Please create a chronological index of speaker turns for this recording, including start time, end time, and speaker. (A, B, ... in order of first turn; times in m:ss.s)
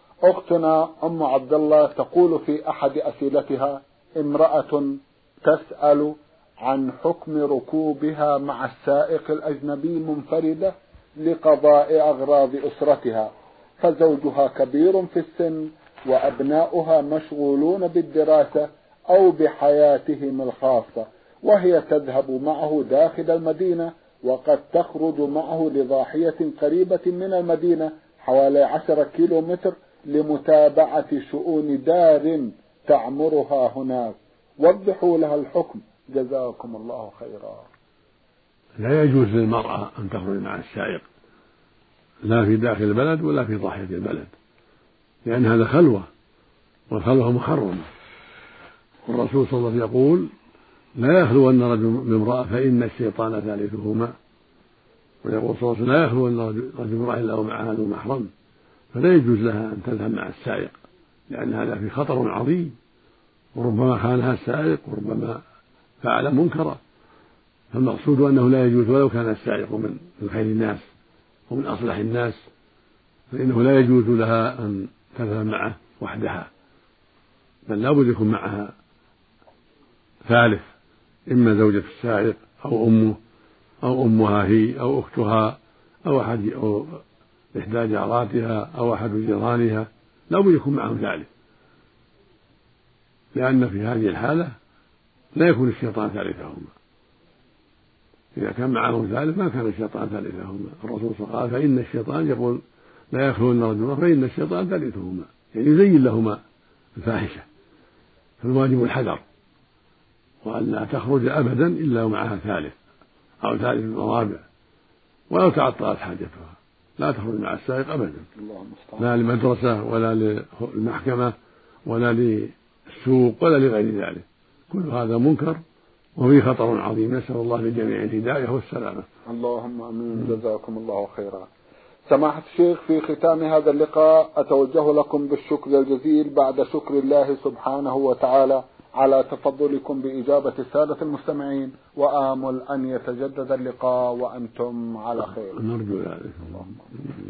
0:00.2-0:37.7 A
0:38.8-0:41.0 B
0:42.2-0:44.3 B
0:45.2-0:46.1 B
0:46.9-0:47.8 B
0:49.1-0:50.3 B
0:51.0-0:54.1 B
0:55.2-0:58.3 B
0:58.9-1:00.8 B
1:01.3-1:02.7 B
1:03.5-1:05.4 B
1:06.0-1:06.8 B
1:07.7-1:10.9 B
1:11.5-1:12.4 B
1:13.3-1:16.5 B
1:17.7-1:18.7 B
1:20.2-1:20.7 B
1:21.3-1:23.2 B
1:23.8-1:27.0 B
1:27.5-1:31.3 B
1:33.3-1:34.5 B
1:35.4-1:36.7 B
1:38.4-1:42.6 B
1:43.1-1:46.4 B
1:47.0-1:47.4 B
1:48.4-1:49.2 B
1:50.4-1:52.7 B
1:53.4-1:54.4 B
1:55.3-1:58.3 B
1:58.4-1:59.0 A
1:59.0-2:01.3 B
2:01.8-2:05.6 B
2:06.2-2:09.0 B
2:09.3-2:11.5 A
2:12.1-2:25.6 A
2:25.5-2:26.7 B